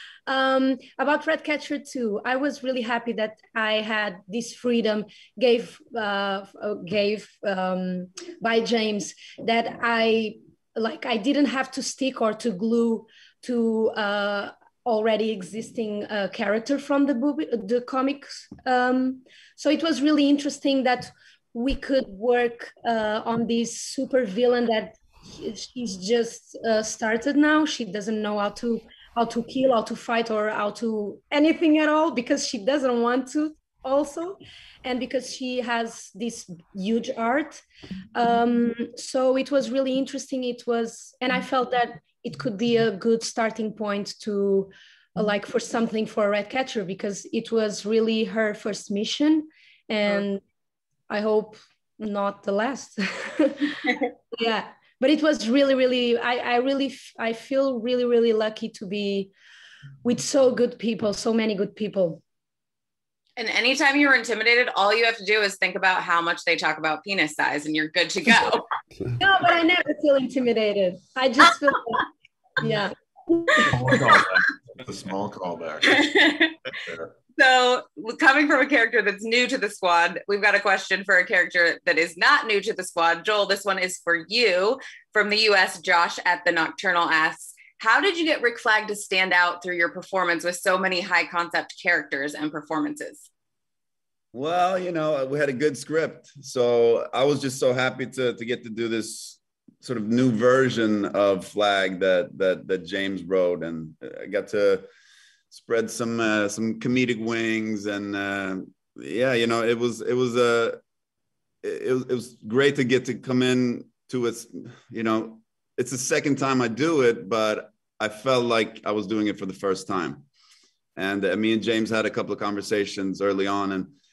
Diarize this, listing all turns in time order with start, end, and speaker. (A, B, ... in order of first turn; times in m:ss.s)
0:00.3-0:37.6 A
0:38.1-0:50.4 A
0:51.1-0:53.7 A
0:54.3-0:59.3 A
1:00.0-1:02.2 A
1:03.4-1:08.7 B
1:09.2-1:12.0 A
1:12.6-1:14.1 A
1:13.7-1:17.1 C
1:15.9-1:16.5 B
1:17.4-1:33.3 B
1:34.3-1:44.8 D
1:45.5-1:50.8 D
1:51.6-2:00.2 D
2:01.0-2:03.9 D